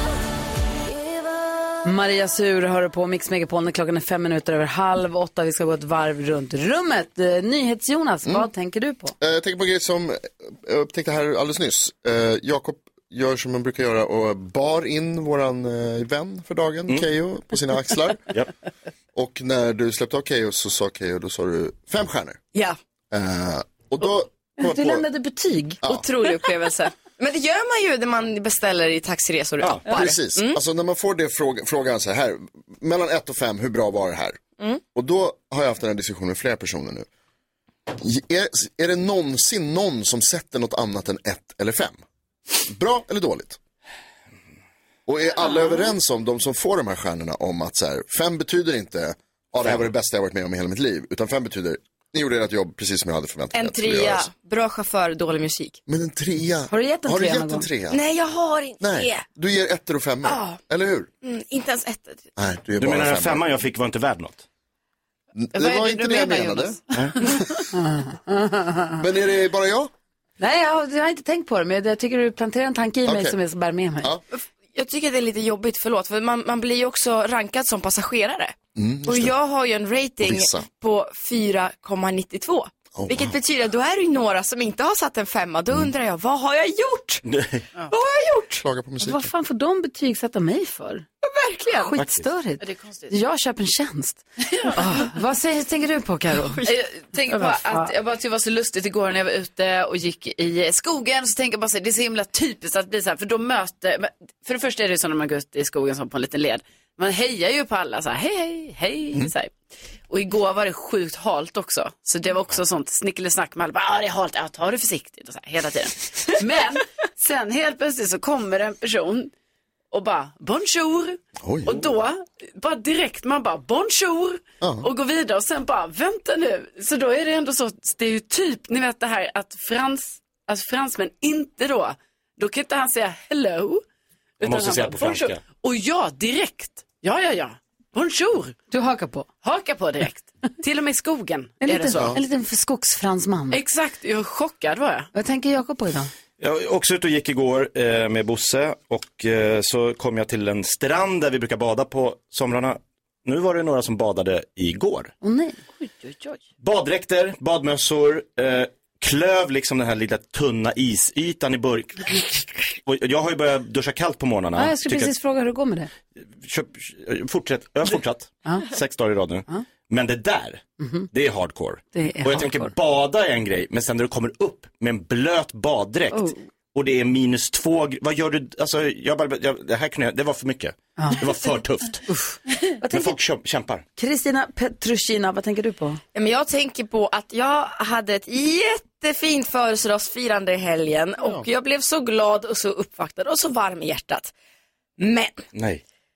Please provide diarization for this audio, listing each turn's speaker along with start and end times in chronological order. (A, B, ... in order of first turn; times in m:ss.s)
0:01.8-0:09.1 A
0:09.2-0:18.3 B
0:19.1-0:22.4 B
0:23.1-0:25.0 B
0:24.6-0:25.8 A
0:25.8-0:30.6 C
0:29.6-0:29.8 D
0:29.8-0:34.4 B
0:34.9-0:37.1 B
0:38.0-0:42.0 B
0:42.7-0:43.6 B
0:45.0-0:54.3 B
0:49.6-0:49.9 D
0:53.5-0:55.8 C
0:55.9-0:58.0 B
0:56.7-0:57.7 A
0:57.9-0:59.2 C
0:58.8-1:01.1 B
1:00.2-1:00.6 C
1:01.2-1:02.3 C
1:02.4-1:03.4 B
1:02.8-1:04.4 D
1:05.4-1:07.4 B
1:05.5-1:07.0 E
1:07.7-1:09.0 A
1:09.0-1:09.9 B
1:10.4-1:14.1 A
1:13.0-1:13.4 B
1:14.3-1:27.2 C
1:18.8-1:19.4 B
1:20.2-1:20.6 B
1:22.9-1:23.4 B
1:27.2-1:27.7 D
1:27.9-1:28.6 C
1:28.6-1:29.3 B
1:29.0-1:31.0 A
1:31.2-1:31.9 C
1:31.7-1:36.6 A
1:32.0-1:32.2 D
1:32.6-1:33.1 E
1:34.5-1:34.8 E
1:36.6-1:49.5 E
1:37.3-1:37.9 A
1:50.1-1:59.3 E
1:59.9-2:13.8 E
2:01.4-2:01.9 B
2:04.6-2:04.9 B
2:14.4-2:18.6 E
2:14.4-2:15.4 D
2:18.7-2:19.3 A
2:19.4-2:22.2 E
2:21.6-2:23.6 A
2:21.9-2:22.2 B
2:23.5-2:25.1 E
2:25.1-2:26.1 A
2:26.4-2:35.1 D
2:35.2-2:36.4 A
2:36.6-2:45.1 D
2:44.5-2:45.9 A
2:46.3-3:02.0 D
2:50.8-2:51.1 A
2:51.9-2:52.7 A
3:02.1-3:03.2 A
3:02.9-3:03.8 D
3:04.0-3:06.0 A
3:06.1-3:14.3 C
3:15.0-3:15.5 C
3:15.5-3:15.8 D